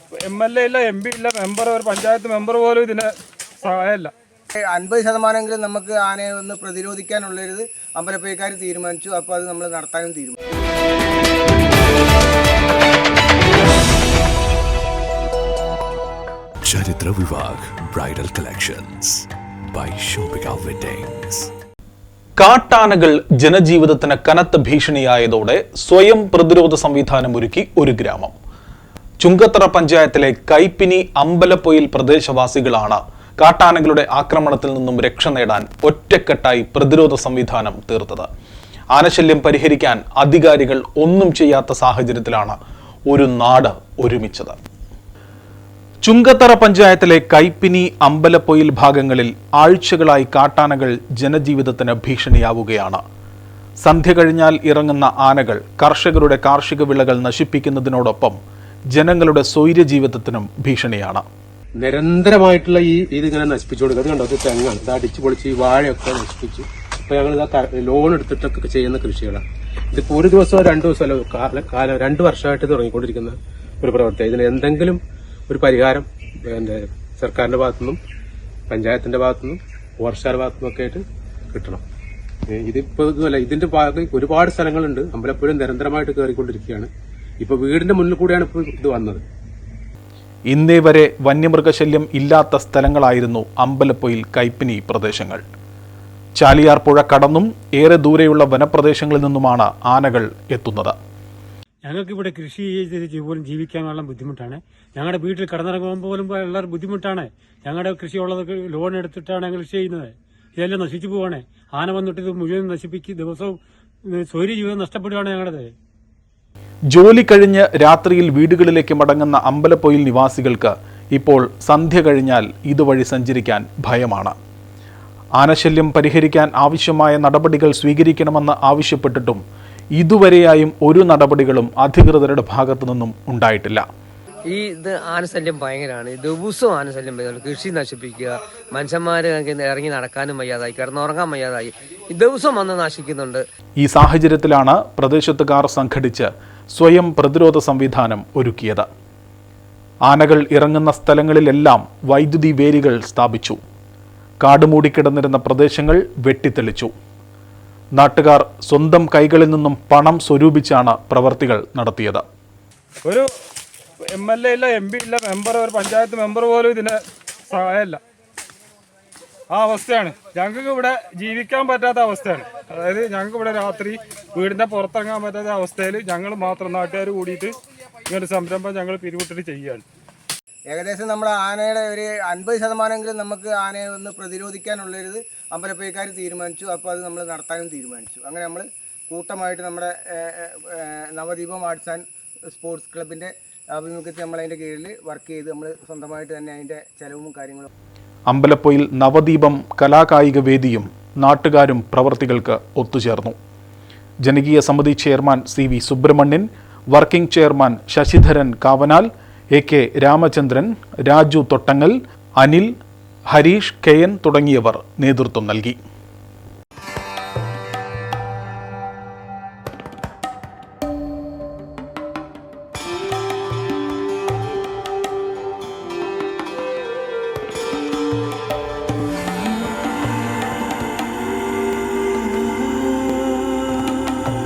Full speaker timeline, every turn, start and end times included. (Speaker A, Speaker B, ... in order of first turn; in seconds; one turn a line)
Speaker A: 0.2-3.1
Speaker A: 3.6-4.1
Speaker B: 4.6-10.3
Speaker C: 16.6-21.5
Speaker D: 22.4-28.3
Speaker D: 29.2-38.3
Speaker D: 38.9-42.6
Speaker D: 43.1-44.6
Speaker D: 46.0-53.0
Speaker D: 53.8-58.4
Speaker D: 58.9-61.2
Speaker E: 61.8-78.0
Speaker E: 78.7-81.8
Speaker E: 82.5-89.2
Speaker D: 90.5-95.4
Speaker D: 96.4-100.9
Speaker F: 101.8-113.6
Speaker F: 114.2-115.7
Speaker D: 116.9-124.3
Speaker D: 125.4-129.4
Speaker D: 130.0-133.8
Speaker G: 134.5-143.4
Speaker D: 143.8-148.8
Speaker D: 150.1-153.6
Speaker D: 154.4-156.9
Speaker D: 157.9-162.2
Speaker A: 164.1-168.0
Speaker A: 169.5-177.5
Speaker A: 178.1-179.8
Speaker B: 180.7-197.7
Speaker D: 198.3-203.3
Speaker D: 204.2-212.7
Speaker D: 213.3-215.8